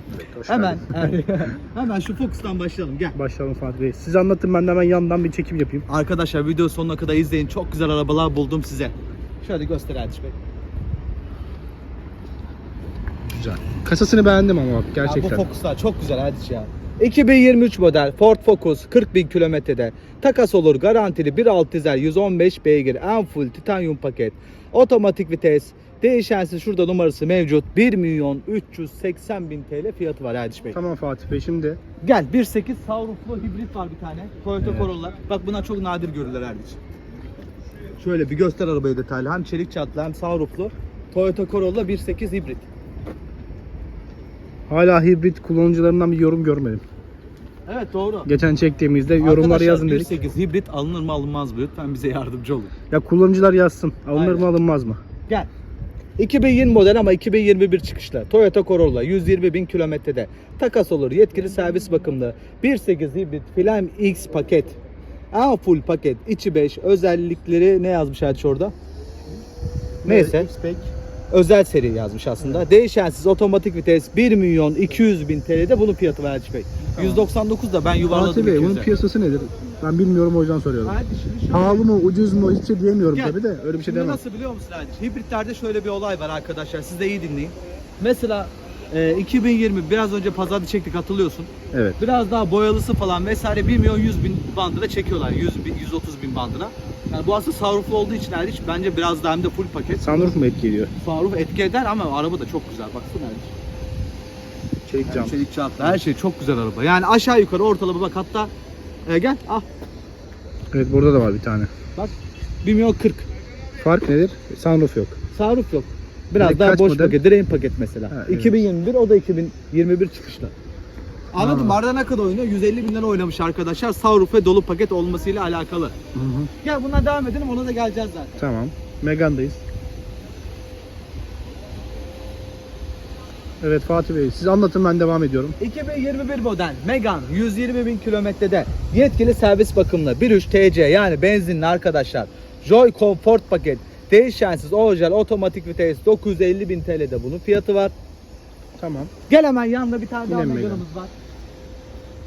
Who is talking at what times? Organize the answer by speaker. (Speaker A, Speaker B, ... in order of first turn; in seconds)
Speaker A: 0.2-1.1, 3.1-5.8, 13.3-15.4, 30.7-31.8, 34.6-34.9, 44.7-46.8, 48.2-50.1, 52.9-55.0, 70.0-70.9, 72.4-72.7, 76.9-77.3, 78.1-81.0, 81.5-84.2, 91.7-92.0, 100.0-100.9, 104.8-106.0, 110.7-111.7, 113.8-115.2, 116.4-117.2, 118.1-118.6, 121.4-121.8, 126.1-126.5, 128.4-129.6, 133.6-135.6, 148.8-149.1, 150.3-150.8
Speaker B: 0.5-3.1, 5.9-10.3, 15.0-30.8, 32.0-36.8, 38.0-42.6, 47.7-48.3, 49.2-52.7, 54.1-54.5, 56.2-64.8, 65.3-68.7, 70.0-70.5, 71.3-78.9, 80.8-81.8, 83.1-100.0, 101.0-103.5, 105.0-108.5, 109.0-109.6, 112.0-113.3, 115.3-120.5, 121.3-125.9, 126.6-128.4, 135.6-147.9, 149.3-151.1